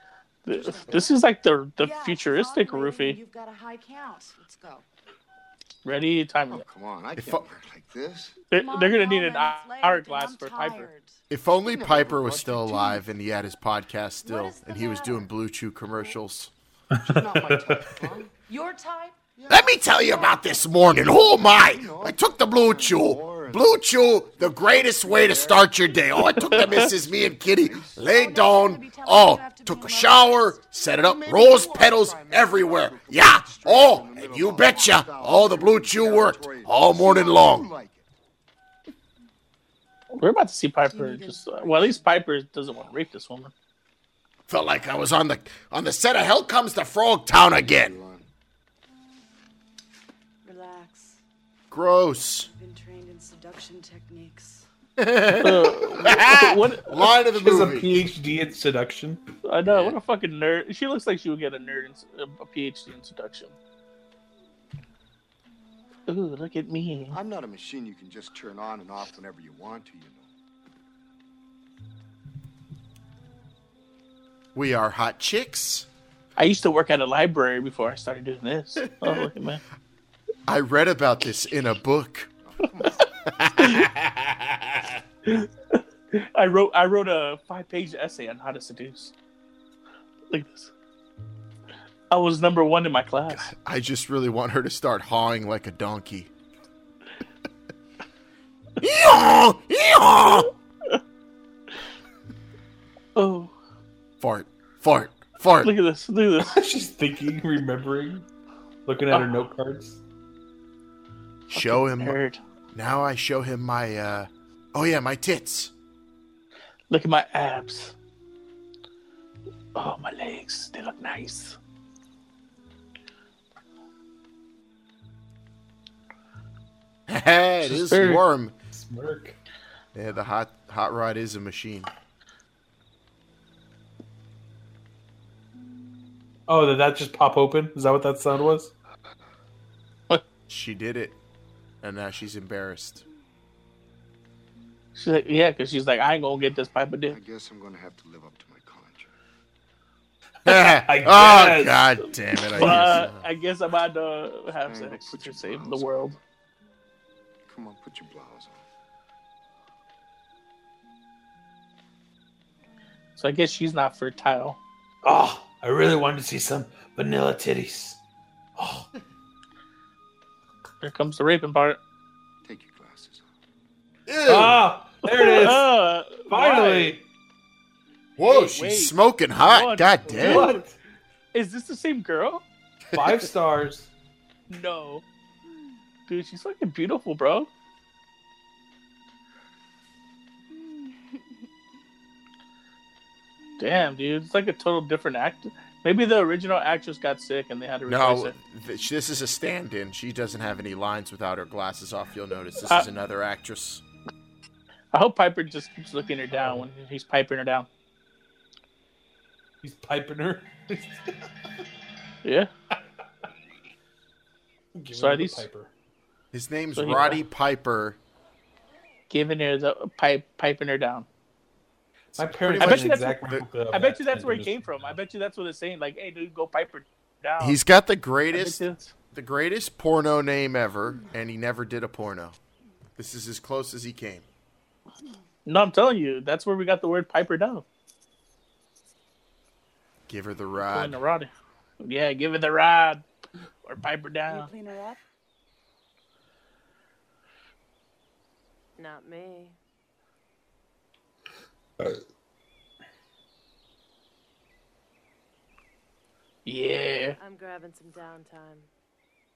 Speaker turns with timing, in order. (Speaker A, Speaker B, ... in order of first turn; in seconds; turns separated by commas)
Speaker A: 0.5-3.2, Speaker B: 0.5-1.1, Speaker B: 1.8-4.8, Speaker A: 5.8-6.6, Speaker C: 6.5-8.4, Speaker D: 7.2-7.4, Speaker A: 8.5-10.9, Speaker B: 8.5-11.2, Speaker D: 11.3-16.5, Speaker C: 11.7-13.0, Speaker B: 14.2-15.3, Speaker E: 16.9-17.8, Speaker C: 17.1-18.3, Speaker B: 18.5-19.2, Speaker C: 19.4-20.4, Speaker D: 19.5-37.7, Speaker C: 21.4-23.6, Speaker C: 25.0-25.8, Speaker A: 26.4-26.9, Speaker C: 26.5-26.9, Speaker C: 27.6-28.0, Speaker B: 28.0-30.6, Speaker C: 30.9-38.1, Speaker A: 40.1-43.5, Speaker B: 40.9-42.1, Speaker D: 44.5-48.0, Speaker C: 47.6-48.3, Speaker B: 50.4-51.2, Speaker D: 51.7-52.5, Speaker B: 52.5-54.7, Speaker D: 55.0-58.0, Speaker A: 55.4-57.1, Speaker E: 57.4-59.2, Speaker A: 59.4-63.5, Speaker D: 59.6-60.0, Speaker A: 66.1-67.2, Speaker C: 67.1-70.3, Speaker D: 74.5-75.9, Speaker A: 76.4-79.6, Speaker D: 79.0-79.3, Speaker D: 80.5-82.3, Speaker C: 82.5-83.1, Speaker D: 83.3-85.0, Speaker A: 85.3-89.1, Speaker A: 90.3-90.7, Speaker A: 92.1-93.5, Speaker D: 93.3-96.3, Speaker D: 98.8-100.5, Speaker A: 103.2-103.5, Speaker D: 104.2-105.7, Speaker A: 105.6-106.6, Speaker E: 106.4-108.2, Speaker E: 108.9-110.0, Speaker A: 111.5-112.4, Speaker D: 111.5-112.2, Speaker D: 112.7-115.7, Speaker A: 116.9-118.0, Speaker A: 119.8-121.6, Speaker D: 127.1-128.6, Speaker A: 127.7-128.2, Speaker E: 128.7-129.4, Speaker D: 129.9-131.9, Speaker E: 136.5-138.7, Speaker D: 140.5-141.2, Speaker D: 141.8-143.1, Speaker A: 144.9-147.2, Speaker C: 147.1-149.1, Speaker D: 150.4-153.2, Speaker E: 150.8-151.8, Speaker A: 152.6-156.2, Speaker C: 154.6-156.2, Speaker C: 157.5-158.6, Speaker A: 163.2-164.6, Speaker E: 165.0-168.0, Speaker E: 168.6-168.9, Speaker A: 170.8-171.8, Speaker C: 172.4-173.3, Speaker D: 174.1-174.6, Speaker E: 174.2-175.7, Speaker A: 175.0-177.0, Speaker E: 176.3-177.0, Speaker D: 178.2-180.6, Speaker A: 178.2-180.6, Speaker E: 180.2-180.8, Speaker A: 181.3-182.4, Speaker D: 182.9-183.2, Speaker E: 182.9-183.9, Speaker A: 184.5-185.0, Speaker A: 186.1-187.5, Speaker A: 193.6-198.3, Speaker D: 197.9-203.8, Speaker A: 204.9-207.7, Speaker E: 206.3-206.7, Speaker E: 209.6-211.1, Speaker A: 212.2-212.5, Speaker E: 214.8-215.7, Speaker A: 214.9-215.4, Speaker D: 216.3-218.0, Speaker A: 216.8-217.2, Speaker A: 219.1-221.1, Speaker E: 222.2-224.9, Speaker D: 222.2-223.4, Speaker A: 222.6-223.2, Speaker A: 223.7-227.6, Speaker D: 227.4-232.4, Speaker A: 228.3-228.9, Speaker D: 233.0-234.2, Speaker A: 235.4-237.7, Speaker D: 240.1-241.0, Speaker A: 240.6-241.3, Speaker A: 241.8-243.1, Speaker A: 243.7-244.5, Speaker B: 244.3-245.0, Speaker F: 248.8-249.6, Speaker A: 256.4-257.2, Speaker F: 257.2-258.7